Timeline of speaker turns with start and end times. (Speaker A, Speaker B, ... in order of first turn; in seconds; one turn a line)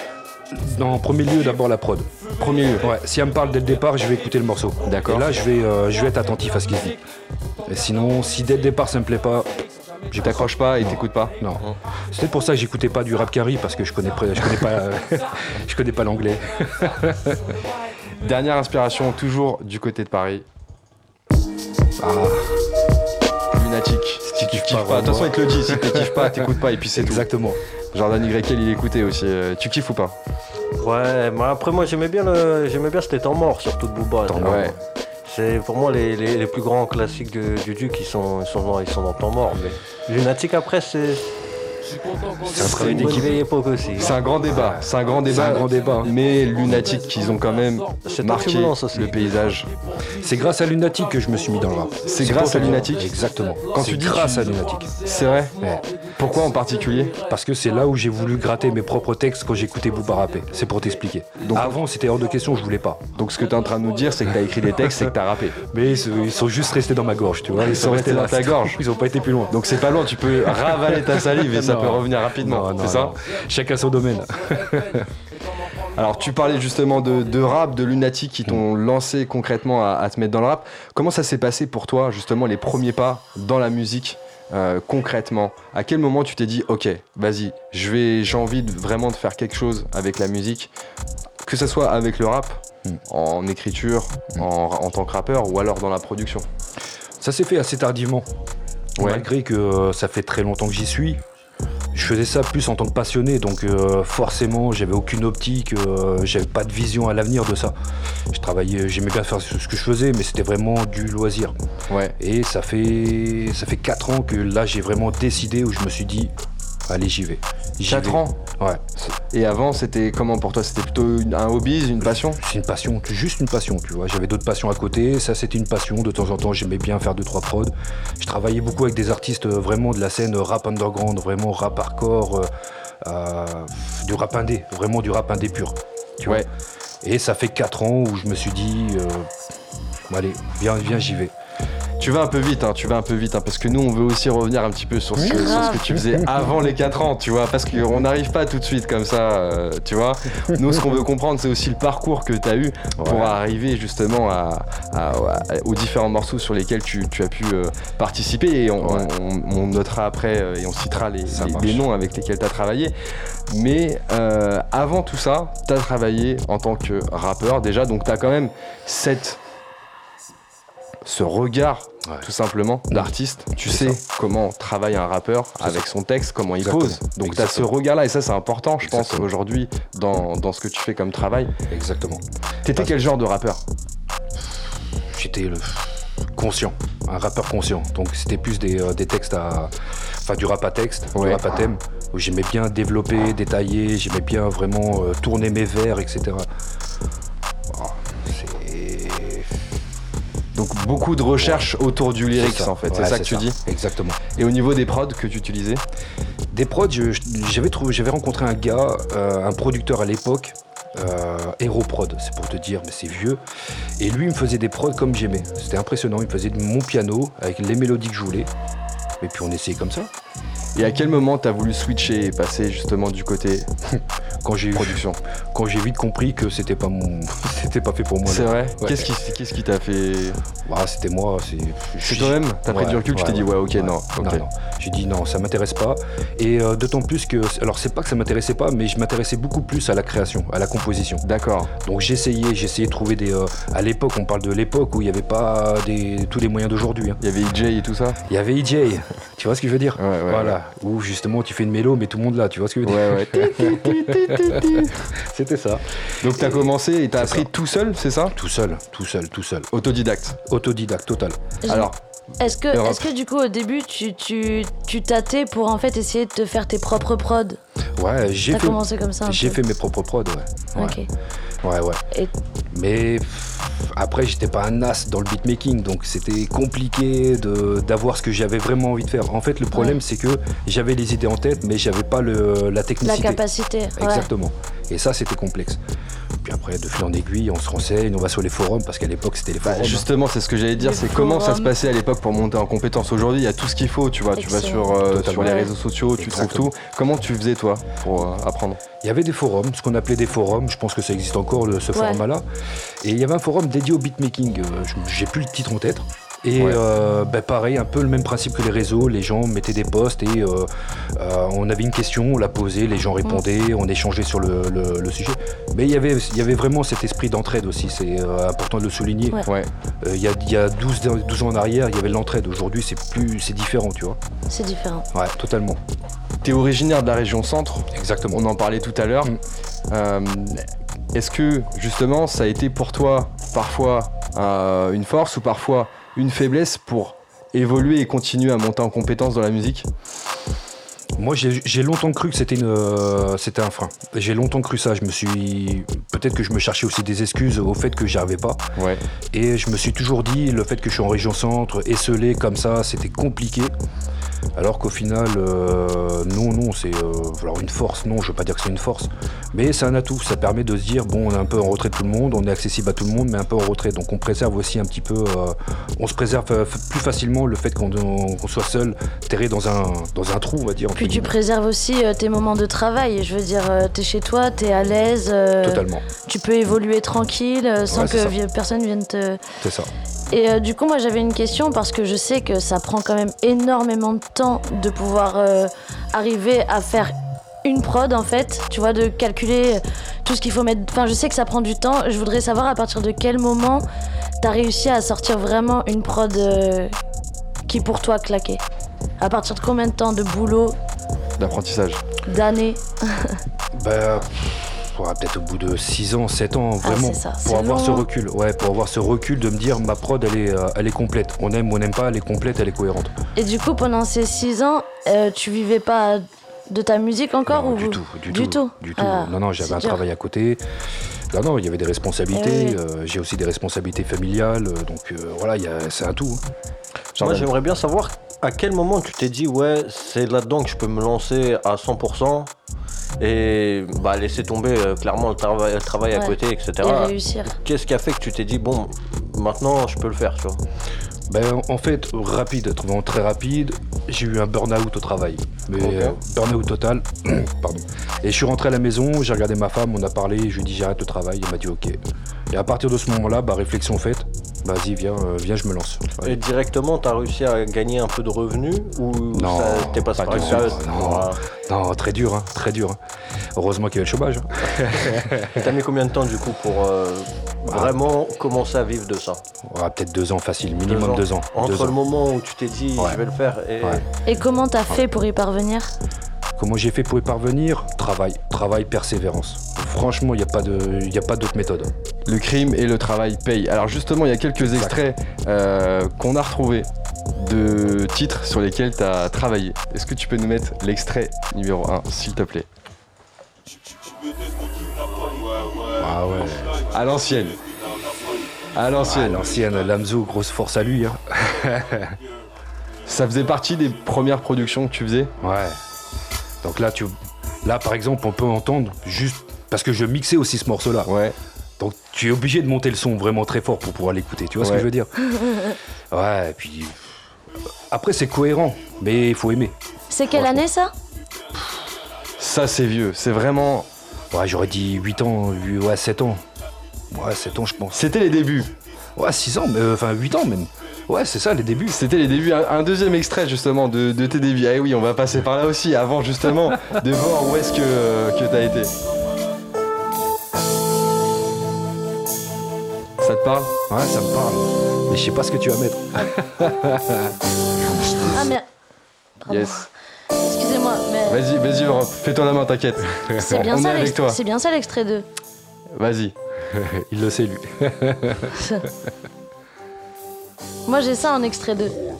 Speaker A: 0.5-2.1
Speaker B: 2.4-2.9
Speaker A: 2.8-7.0
Speaker B: 4.8-5.2
Speaker A: 7.6-17.4
Speaker B: 10.2-11.7
Speaker B: 18.2-20.4
Speaker A: 22.0-22.5
Speaker B: 23.5-27.3
Speaker A: 24.2-27.6
Speaker B: 27.9-30.1
Speaker C: 30.8-34.7
Speaker A: 34.2-34.8
Speaker B: 34.4-34.7
Speaker C: 35.2-41.2
Speaker A: 42.4-43.4
Speaker C: 42.4-44.1
Speaker B: 44.0-49.7
Speaker A: 44.5-46.1
Speaker C: 48.0-49.2
Speaker A: 50.1-55.9
Speaker B: 52.0-53.2
Speaker B: 53.7-55.6
Speaker B: 56.1-57.2
Speaker A: 57.2-63.1
Speaker B: 61.4-61.8
Speaker B: 63.1-65.6
Speaker A: 65.6-69.7
Speaker B: 67.6-68.8
Speaker B: 69.5-73.2
Speaker A: 70.4-75.1
Speaker B: 75.9-90.7
Speaker B: 91.4-96.5
Speaker A: 97.2-98.3
Speaker B: 99.0-99.2
Speaker A: 99.0-101.2
Speaker A: 101.9-107.8
Speaker A: 108.3-111.5
Speaker B: 111.9-112.2
Speaker A: 112.2-116.3
Speaker A: 116.9-118.8
Speaker B: 117.8-118.4
Speaker B: 119.0-122.4
Speaker A: 122.1-132.5
Speaker A: 133.0-136.5
Speaker A: 137.0-139.3
Speaker A: 140.1-141.3
Speaker B: 142.0-162.9
Speaker A: 145.2-146.2
Speaker D: 145.3-146.0
Speaker A: 153.0-153.4
Speaker A: 158.8-159.1
Speaker A: 161.3-161.8
Speaker B: 163.5-169.4
Speaker B: 171.0-181.5
Speaker A: 172.9-174.0
Speaker A: 175.6-175.8
Speaker A: 176.6-177.7
Speaker A: 178.8-179.3
Speaker A: 181.7-182.9
Speaker B: 182.6-183.6
Speaker A: 185.1-196.4
Speaker B: 191.1-191.4
Speaker A: 197.7-199.5
Speaker B: 200.5-203.6
Speaker A: 201.4-201.7
Speaker A: 202.3-204.2
Speaker B: 204.3-205.8
Speaker A: 206.5-213.4
Speaker A: 214.0-218.5
Speaker A: 219.2-220.1
Speaker B: 220.7-223.7
Speaker A: 223.9-225.0
Speaker B: 224.8-225.2
Speaker A: 225.5-229.1
Speaker B: 228.2-230.4
Speaker A: 230.6-241.2
Speaker B: 232.0-234.4
Speaker B: 241.2-241.7
Speaker A: 241.8-247.2
Speaker B: 247.2-248.2
Speaker A: 248.3-257.5
Speaker B: 250.0-250.6
Speaker B: 252.8-255.0
Speaker B: 256.2-258.4
Speaker A: 258.3-259.7
Speaker B: 259.7-260.4
Speaker A: 260.4-261.4
Speaker D: 261.6-267.6
Speaker B: 261.7-261.9
Speaker B: 262.7-263.1
Speaker A: 268.0-271.0
Speaker D: 268.5-269.6
Speaker D: 270.8-271.1
Speaker A: 271.6-272.0
Speaker A: 272.7-283.4
Speaker D: 283.0-284.3
Speaker A: 283.9-285.8
Speaker A: 286.4-290.1
Speaker B: 289.6-298.8
Speaker D: 290.8-291.7
Speaker D: 294.4-295.7
Speaker A: 295.0-296.7
Speaker A: 299.0-302.4
Speaker D: 301.9-302.2
Speaker A: 303.0-319.4
Speaker A: 320.0-324.2
Speaker D: 324.5-325.1
Speaker A: 325.1-325.8
Speaker B: 326.4-329.3
Speaker A: 327.9-328.4
Speaker B: 329.9-330.6
Speaker B: 331.1-339.9
Speaker A: 341.2-348.6
Speaker B: 348.8-349.0
Speaker A: 349.3-353.7
Speaker A: 354.6-371.3
Speaker D: 370.9-379.4
Speaker A: 375.6-376.0
Speaker A: 377.9-378.4
Speaker A: 379.6-379.9
Speaker D: 380.3-387.1
Speaker D: 387.6-393.8
Speaker D: 394.4-396.9
Speaker D: 397.7-398.6
Speaker D: 399.2-400.8
Speaker B: 401.4-402.0
Speaker D: 402.3-403.4
Speaker A: 403.7-413.1
Speaker D: 406.8-408.1
Speaker D: 413.4-420.0
Speaker A: 417.5-420.6
Speaker A: 421.3-426.4
Speaker D: 422.3-422.8
Speaker A: 427.2-427.5
Speaker C: 427.2-432.5
Speaker C: 433.2-440.6
Speaker D: 436.1-437.5
Speaker A: 441.3-456.4
Speaker C: 445.8-446.1
Speaker C: 456.2-461.4
Speaker A: 459.3-463.0
Speaker B: 460.3-460.7
Speaker A: 463.6-465.6
Speaker C: 465.5-469.4
Speaker A: 467.7-467.9
Speaker A: 469.6-472.0
Speaker C: 470.9-474.1
Speaker D: 474.2-475.9
Speaker A: 476.6-481.9
Speaker B: 482.2-492.6
Speaker A: 484.6-485.0
Speaker A: 495.9-496.9
Speaker B: 496.9-497.6
Speaker B: 498.7-499.4
Speaker A: 499.0-502.1
Speaker B: 503.1-505.3
Speaker A: 505.4-505.8
Speaker A: 506.6-511.1
Speaker B: 511.1-511.4
Speaker A: 511.8-515.1
Speaker B: 514.6-514.9
Speaker D: 515.3-515.7
Speaker A: 516.1-517.1
Speaker A: 517.9-519.8
Speaker D: 520.1-520.9
Speaker A: 520.3-520.6
Speaker B: 522.4-523.9
Speaker A: 524.3-526.4
Speaker A: 527.1-528.0
Speaker B: 527.9-528.7
Speaker A: 529.1-532.0
Speaker B: 531.9-538.9
Speaker B: 543.2-543.7
Speaker A: 543.9-548.5
Speaker D: 548.3-548.6
Speaker D: 549.4-549.9
Speaker B: 549.5-549.8
Speaker D: 550.4-551.4
Speaker B: 551.3-554.4
Speaker D: 553.4-555.2
Speaker B: 555.9-556.3
Speaker A: 556.7-558.5
Speaker D: 558.6-558.9
Speaker D: 560.9-562.0